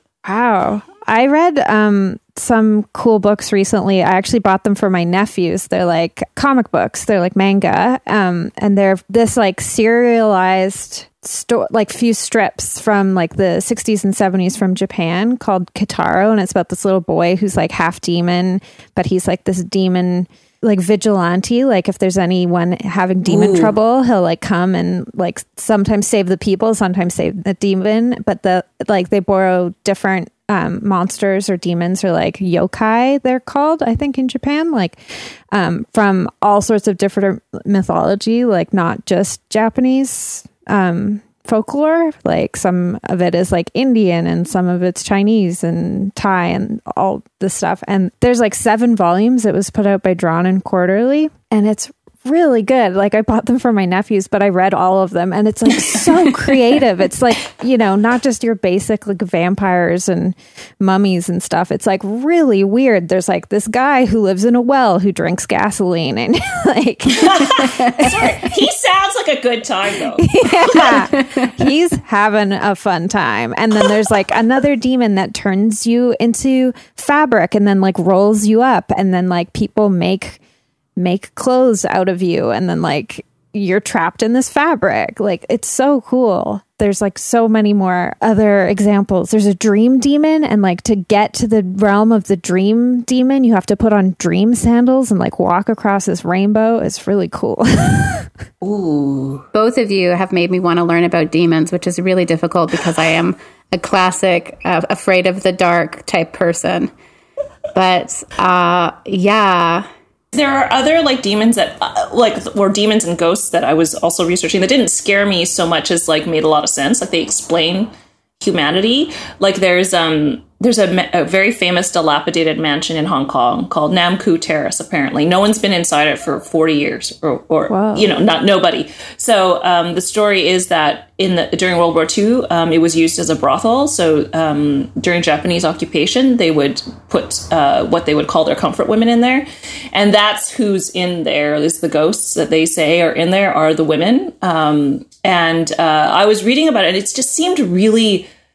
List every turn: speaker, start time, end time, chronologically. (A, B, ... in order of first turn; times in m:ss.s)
0:00.2-0:35.0 A
0:23.3-0:23.7 B
0:35.5-1:08.4 A
1:07.1-1:11.1 B
1:07.6-1:08.1 C
1:10.2-1:20.4 A
1:11.1-1:11.5 C
1:21.0-1:38.3 A
1:38.6-1:39.4 B
1:39.5-1:46.9 C
1:47.7-1:49.9 C
1:50.3-2:28.3 B
2:07.7-2:08.1 A